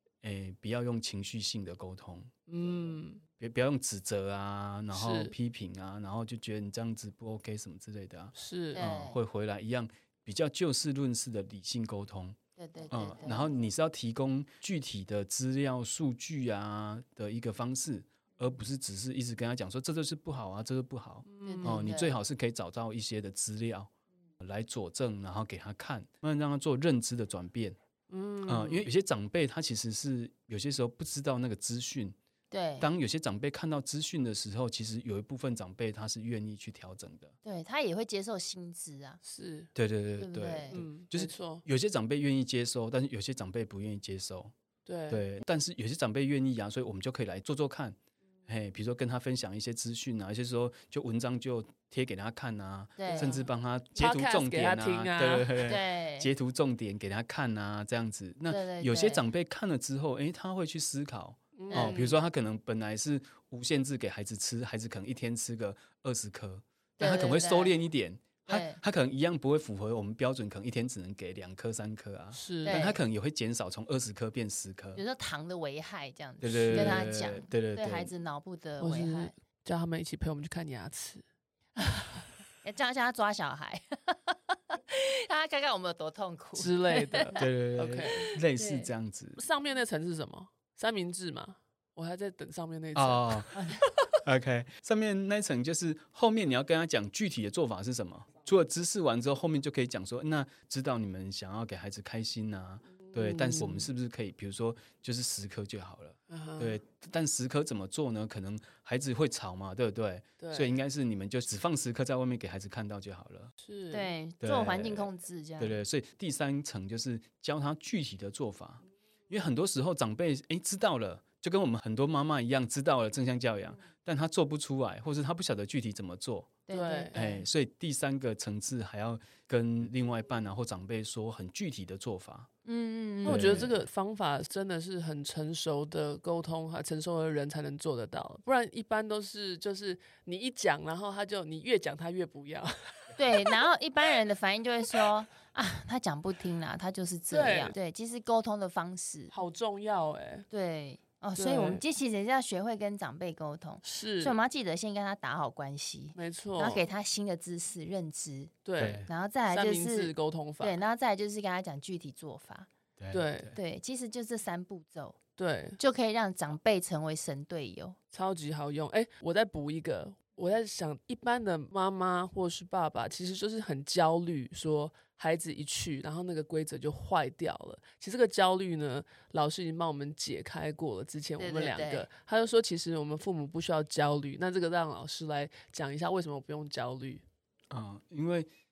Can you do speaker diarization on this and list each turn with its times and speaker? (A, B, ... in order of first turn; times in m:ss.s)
0:00.2-0:02.3 A
0:02.5-0:03.2 B
0:03.4-0:12.4 A
0:04.9-0:05.3 B
0:08.3-0:08.8 B
0:08.7-0:09.2 C
0:12.6-0:13.5 C
0:12.9-0:27.8 A
0:21.2-0:21.8 B
0:21.4-0:22.2 C
0:28.1-0:28.9 B
0:28.4-0:32.2 A
0:32.5-0:32.9 C
0:32.8-0:37.3 A
0:37.4-0:39.2 C
0:39.2-0:39.7 B
0:39.7-0:44.5 A
0:40.2-0:40.8 C
0:40.7-0:41.6 B
0:44.8-0:45.2 B
0:45.1-0:48.0 A
0:48.5-1:15.0 A
0:53.0-0:53.4 C
0:53.0-0:53.4 B
0:53.9-0:55.7 B
0:55.6-0:56.3 C
0:58.5-0:59.3 C
1:01.6-1:02.0 B
1:01.7-1:02.2 C
1:07.0-1:07.8 C
1:08.4-1:08.8 C
1:12.3-1:12.8 B
1:12.6-1:13.0 C
1:14.9-1:19.3 C
1:16.4-1:18.1 A
1:16.7-1:17.2 B
1:18.8-1:21.2 B
1:21.8-1:27.4 C
1:26.6-1:28.3 B
1:27.4-1:29.4 A
1:28.1-1:28.9 C
1:29.4-1:34.1 B
1:32.9-1:33.5 A
1:33.6-1:33.8 C
1:34.2-1:53.5 A
1:43.1-1:43.9 B
1:46.3-1:46.8 B
1:50.4-1:50.8 B
1:53.6-1:54.1 B
1:53.9-1:55.8 C
1:54.4-2:06.5 A
2:06.7-2:07.4 C
2:06.7-2:07.2 B
2:07.1-2:12.5 A
2:12.6-2:13.6 C
2:13.2-2:23.6 B
2:13.2-2:13.8 A
2:23.2-2:29.3 C
2:27.3-2:27.8 B
2:29.3-2:30.4 B
2:30.5-2:42.7 C
2:31.4-2:31.8 B
2:33.8-2:34.4 B
2:36.1-2:36.8 B
2:38.6-2:40.8 B
2:38.8-2:39.1 A
2:43.0-2:43.6 A
2:43.1-2:43.5 B
2:43.5-2:45.2 C
2:45.4-2:45.8 B
2:45.8-2:48.0 C
2:48.1-3:07.2 B
3:01.4-3:02.1 C
3:07.7-3:08.5 A